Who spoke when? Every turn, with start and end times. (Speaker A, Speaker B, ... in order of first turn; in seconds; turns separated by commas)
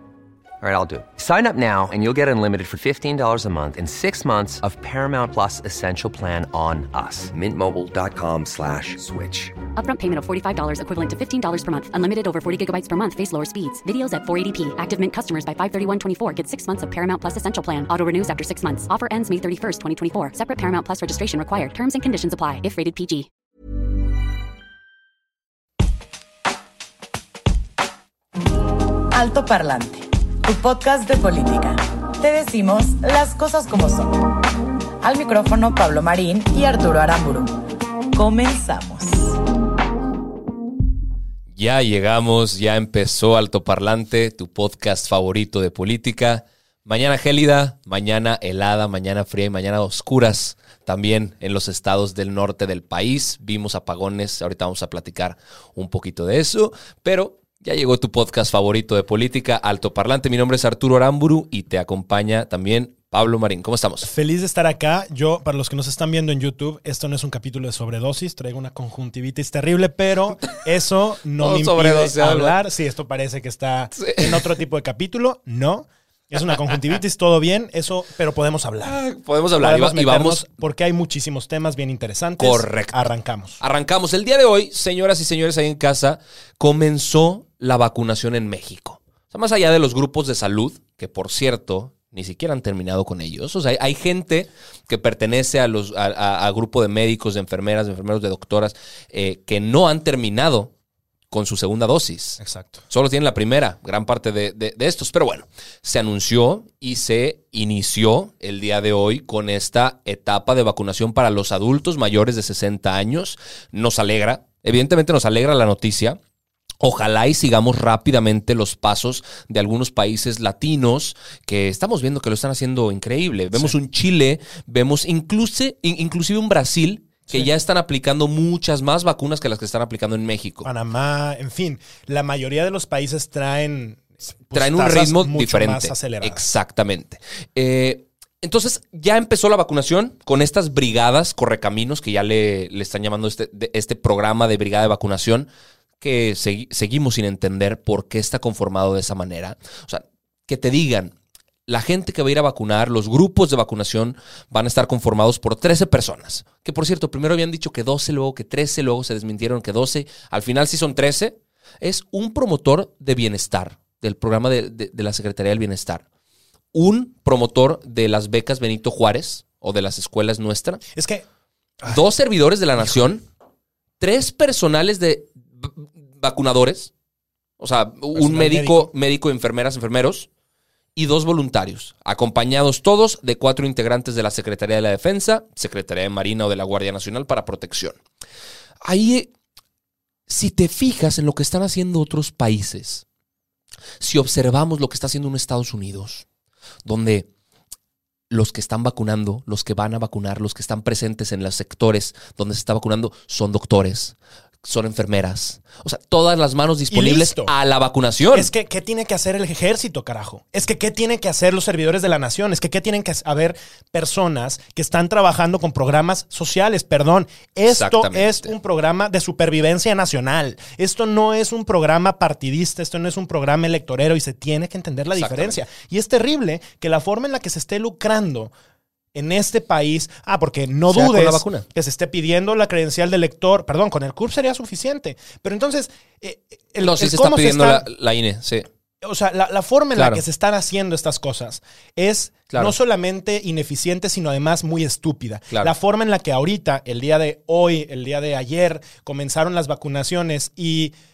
Speaker A: 0.6-9.6, Speaker B: 9.8-23.3, Speaker C: 29.1-34.4, Speaker C: 35.0-37.6, Speaker C: 38.1-39.4, Speaker D: 41.5-64.1, Speaker E: 64.0-79.0, Speaker D: 71.4-72.6, Speaker D: 74.0-74.5, Speaker D: 78.8-80.4, Speaker E: 79.6-83.6, Speaker D: 82.4-83.1, Speaker D: 83.6-100.7, Speaker D: 101.3-116.2, Speaker E: 102.4-102.8, Speaker D: 116.8-130.7, Speaker E: 130.6-136.5, Speaker D: 134.5-145.5, Speaker D: 146.0-151.1, Speaker D: 151.7-166.0, Speaker D: 166.7-170.8, Speaker E: 170.9-171.2, Speaker D: 171.9-173.2, Speaker D: 174.0-176.9, Speaker D: 177.6-180.3, Speaker E: 178.1-178.9, Speaker D: 180.9-188.0, Speaker D: 188.8-189.3, Speaker D: 190.3-193.0, Speaker D: 194.0-196.2, Speaker D: 196.8-197.3, Speaker D: 198.3-208.5, Speaker E: 206.9-207.5, Speaker E: 208.3-228.5, Speaker D: 217.7-218.5, Speaker D: 225.1-225.6, Speaker E: 229.1-237.8, Speaker D: 230.9-231.7, Speaker D: 236.8-238.7, Speaker E: 239.0-250.9, Speaker D: 239.9-240.2